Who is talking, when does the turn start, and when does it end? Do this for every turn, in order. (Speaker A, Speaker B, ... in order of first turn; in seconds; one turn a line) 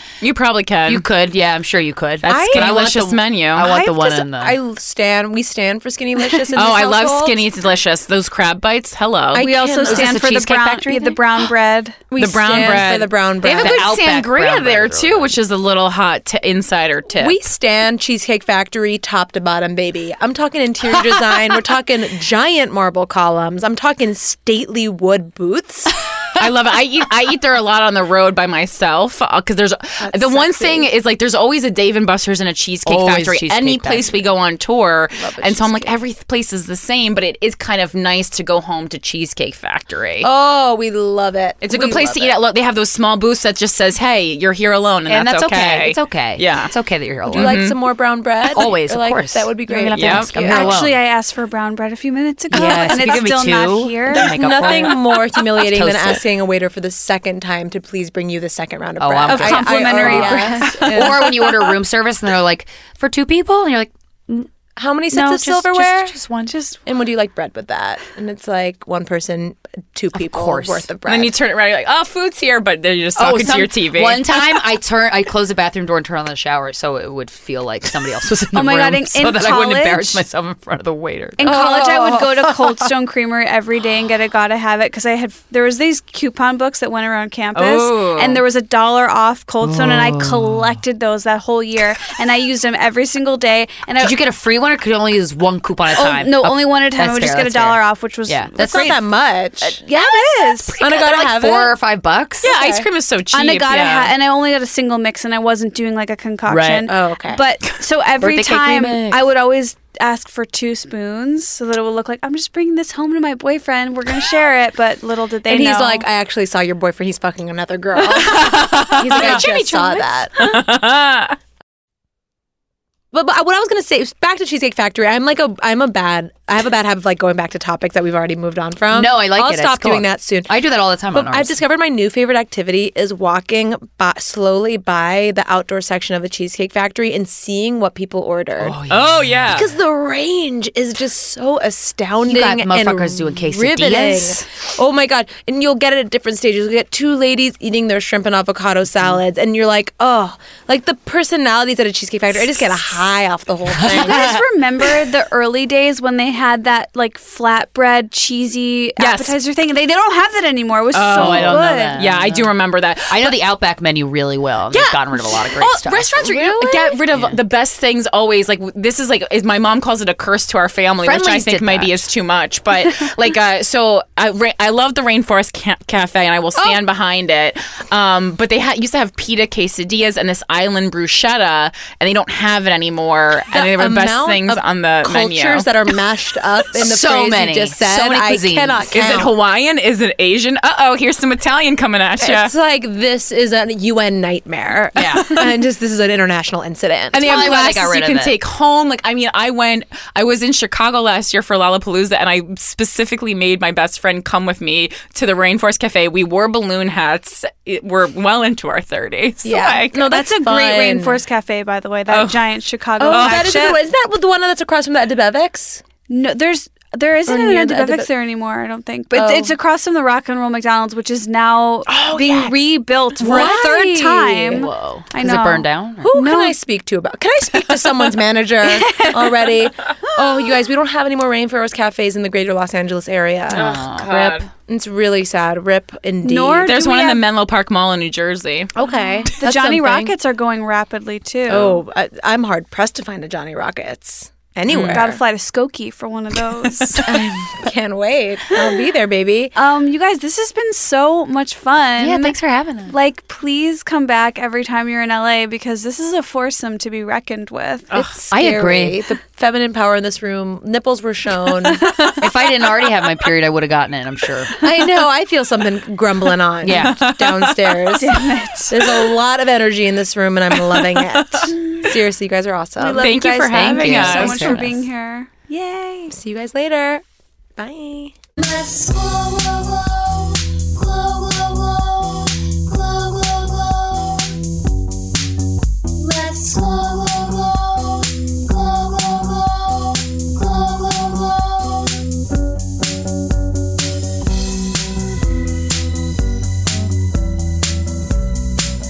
Speaker A: 0.2-1.1
Speaker B: 0.9-4.6
Speaker A: 2.2-3.7
Speaker C: 2.2-3.0
Speaker C: 3.6-7.4
Speaker A: 6.5-10.2
Speaker C: 9.3-11.1
Speaker D: 9.4-12.0
Speaker B: 10.2-10.8
Speaker C: 12.1-13.9
Speaker A: 12.2-17.4
Speaker B: 13.4-15.3
Speaker C: 17.2-26.0
Speaker A: 26.4-40.3
Speaker C: 30.0-30.9
Speaker B: 32.9-34.2
Speaker C: 35.2-35.9
Speaker C: 40.2-42.4
Speaker A: 41.6-46.7
Speaker B: 45.1-47.6
Speaker A: 47.2-47.7
Speaker C: 47.3-50.8
Speaker B: 48.5-51.0
Speaker A: 49.9-50.3
Speaker D: 50.4-54.8
Speaker B: 52.5-56.2
Speaker C: 52.5-52.9
Speaker C: 54.1-61.6
Speaker B: 59.0-64.5
Speaker D: 59.3-61.0
Speaker A: 60.7-61.7
Speaker C: 64.8-66.1
Speaker D: 65.1-65.4
Speaker B: 65.1-66.5
Speaker C: 66.8-71.3
Speaker B: 70.1-70.9
Speaker A: 71.0-74.7
Speaker B: 73.2-81.7
Speaker D: 78.5-80.2
Speaker D: 81.4-94.1
Speaker C: 81.4-82.5
Speaker A: 87.5-88.4
Speaker B: 89.6-90.8
Speaker B: 94.0-99.0
Speaker D: 95.9-99.0
Speaker C: 98.6-101.7
Speaker D: 99.6-100.8
Speaker B: 100.8-102.5
Speaker C: 102.4-102.9
Speaker A: 102.4-104.1
Speaker D: 103.3-116.0
Speaker B: 106.5-106.9
Speaker C: 106.9-107.4
Speaker B: 108.2-109.2
Speaker C: 115.5-120.3
Speaker D: 118.0-120.6
Speaker A: 118.2-119.4
Speaker A: 120.4-121.4
Speaker C: 123.1-130.5
Speaker B: 128.9-131.6
Speaker C: 131.1-138.8
Speaker B: 138.6-139.7
Speaker A: 138.9-139.7
Speaker C: 139.5-154.4
Speaker B: 142.2-144.4
Speaker B: 153.8-154.4
Speaker D: 153.8-162.1
Speaker A: 159.0-159.3
Speaker A: 160.9-163.4
Speaker B: 161.1-162.5
Speaker B: 163.1-166.4
Speaker A: 164.7-185.7
Speaker C: 166.4-166.9
Speaker B: 167.1-167.4
Speaker B: 171.0-171.9
Speaker C: 183.5-189.3
Speaker B: 186.7-189.1
Speaker A: 188.9-192.5
Speaker C: 192.2-197.5
Speaker B: 194.9-195.4
Speaker A: 195.0-195.5
Speaker A: 197.1-210.1
Speaker B: 197.2-198.3
Speaker C: 209.4-211.2
Speaker D: 210.0-213.8
Speaker A: 212.1-212.4
Speaker C: 213.0-215.8
Speaker A: 213.1-213.4
Speaker D: 216.1-226.6
Speaker C: 217.2-218.1
Speaker C: 219.1-219.6
Speaker A: 221.9-222.5
Speaker C: 223.2-224.7
Speaker B: 224.7-226.1
Speaker C: 226.0-236.7
Speaker D: 228.6-229.5
Speaker A: 233.5-234.5
Speaker B: 233.5-234.4
Speaker D: 236.2-237.2
Speaker A: 236.6-238.7
Speaker C: 238.8-240.1
Speaker D: 238.9-241.8
Speaker C: 241.5-245.2
Speaker A: 244.7-245.0
Speaker D: 244.9-247.0
Speaker A: 246.6-247.2
Speaker B: 247.0-247.5
Speaker C: 247.6-249.5
Speaker D: 249.5-252.4
Speaker B: 252.0-252.9
Speaker D: 252.9-257.9
Speaker C: 257.9-261.9
Speaker B: 258.3-259.0
Speaker D: 261.7-263.0
Speaker B: 262.2-264.6
Speaker C: 264.6-273.1
Speaker B: 266.6-267.1
Speaker A: 266.6-267.8
Speaker D: 267.9-268.8
Speaker A: 268.8-269.1
Speaker A: 270.5-271.5
Speaker D: 271.5-271.9
Speaker D: 272.8-276.1
Speaker A: 273.0-274.7
Speaker B: 273.6-274.8
Speaker C: 273.9-274.6
Speaker C: 276.1-277.0
Speaker C: 277.6-278.1
Speaker E: 278.4-284.4
Speaker E: 286.0-292.1